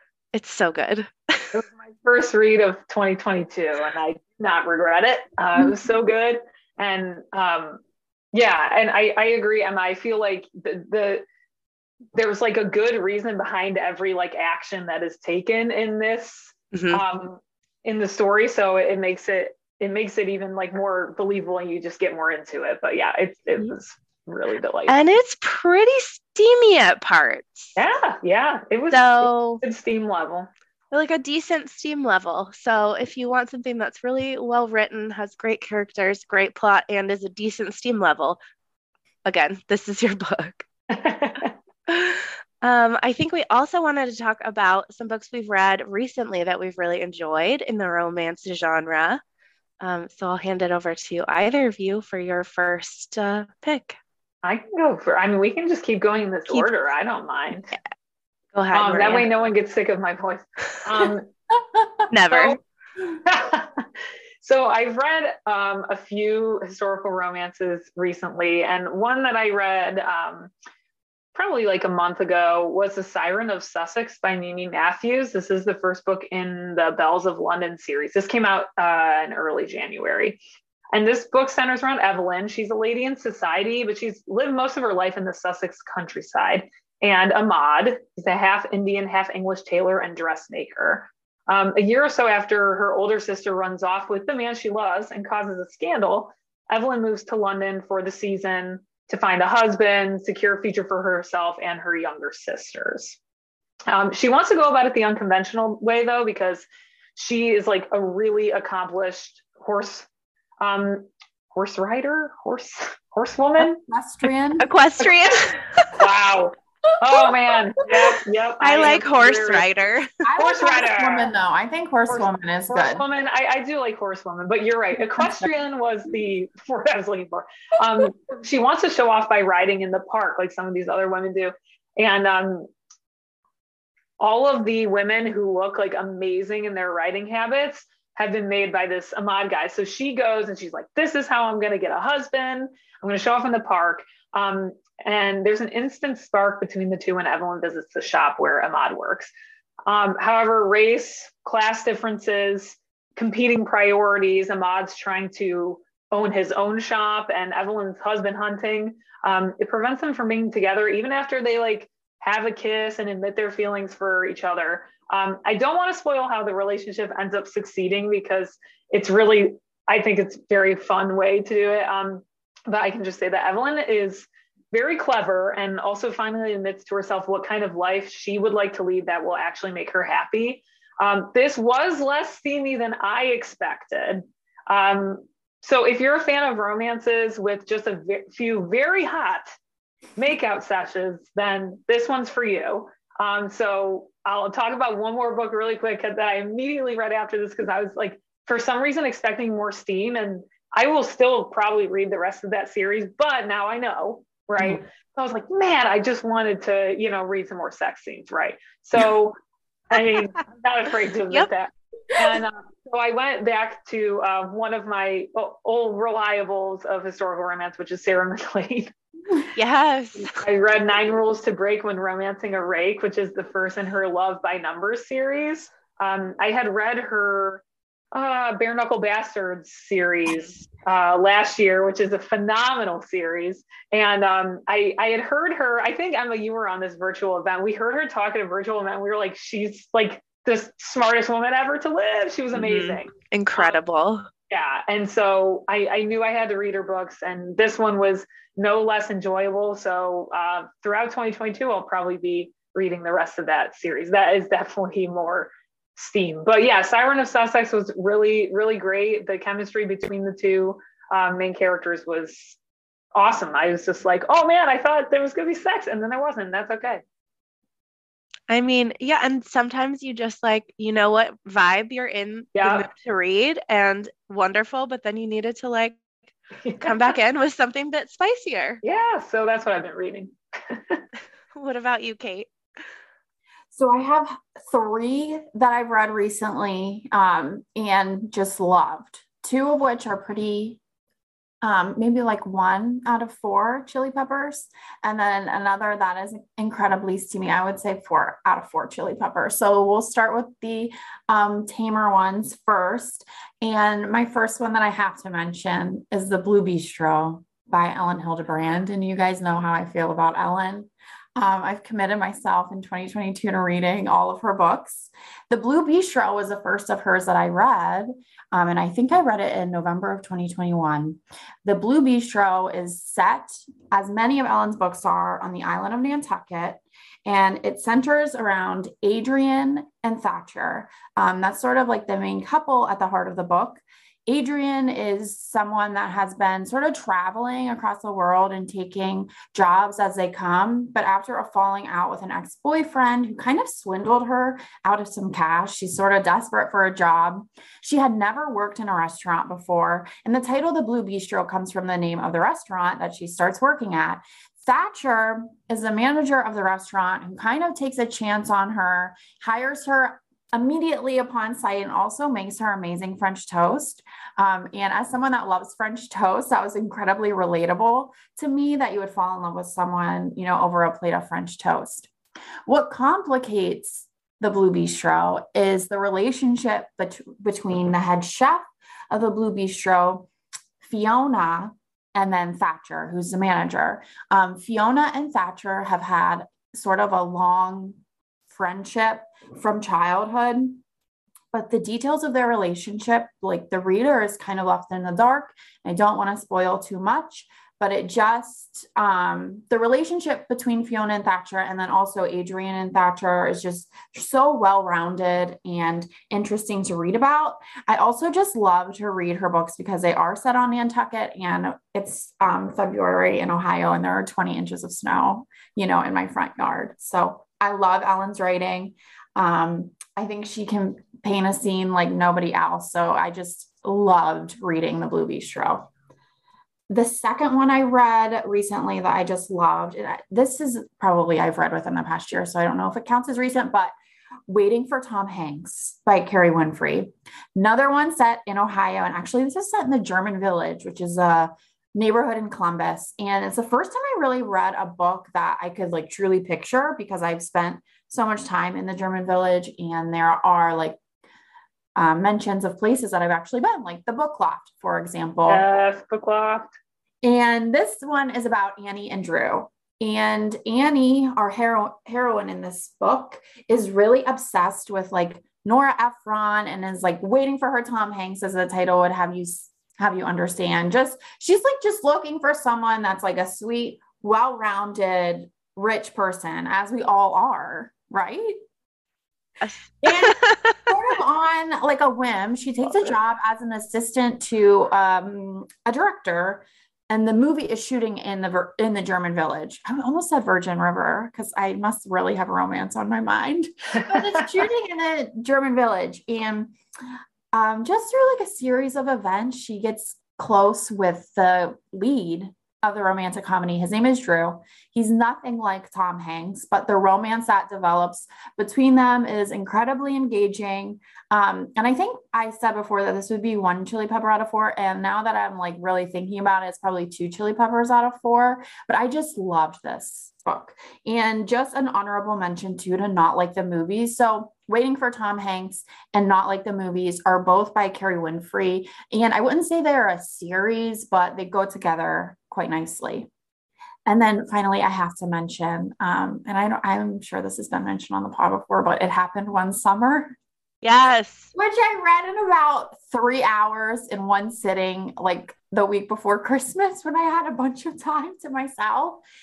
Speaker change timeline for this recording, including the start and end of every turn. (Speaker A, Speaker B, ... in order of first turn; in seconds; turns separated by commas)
Speaker A: 0.3-1.6, Speaker B: 1.5-7.8, Speaker B: 8.3-11.2, Speaker B: 12.2-25.0, Speaker A: 16.7-17.0, Speaker A: 24.9-27.8, Speaker B: 27.8-30.5, Speaker A: 28.9-29.6, Speaker A: 30.9-38.4, Speaker A: 39.3-40.7, Speaker B: 40.9-41.5, Speaker A: 41.9-49.2, Speaker A: 49.8-54.0, Speaker B: 54.4-57.7, Speaker A: 58.5-59.3, Speaker B: 58.7-61.3, Speaker A: 62.1-62.6, Speaker B: 62.3-62.6, Speaker B: 63.2-63.9, Speaker B: 64.4-70.5, Speaker B: 71.3-80.4, Speaker B: 80.9-103.2, Speaker B: 103.9-110.1, Speaker B: 110.6-113.8, Speaker C: 113.6-114.7, Speaker A: 114.6-115.9, Speaker B: 116.0-119.7, Speaker A: 118.6-120.1, Speaker C: 120.2-123.1, Speaker B: 120.4-121.3, Speaker B: 122.1-132.7, Speaker C: 125.2-125.5, Speaker B: 134.2-149.3, Speaker B: 149.9-189.5, Speaker B: 190.2-209.4, Speaker B: 209.9-218.9, Speaker A: 219.6-220.4, Speaker B: 220.4-227.6, Speaker B: 228.1-243.8, Speaker A: 242.6-244.3, Speaker B: 244.5-262.6, Speaker B: 263.2-267.0, Speaker A: 268.5-276.0, Speaker B: 272.6-272.9, Speaker B: 276.6-277.1, Speaker A: 276.8-278.8, Speaker B: 278.8-281.0, Speaker A: 281.5-282.5, Speaker C: 283.7-290.8, Speaker C: 291.6-372.1, Speaker C: 372.7-380.3, Speaker C: 380.8-388.0, Speaker C: 388.5-390.8, Speaker C: 391.5-425.9, Speaker C: 426.9-433.9, Speaker C: 434.5-451.0, Speaker C: 451.9-455.6, Speaker B: 455.5-456.8, Speaker C: 457.2-478.6, Speaker A: 479.6-480.9, Speaker C: 480.0-496.8, Speaker B: 493.9-494.5, Speaker C: 497.5-533.3, Speaker C: 534.1-540.4, Speaker A: 540.8-541.5, Speaker C: 541.5-549.2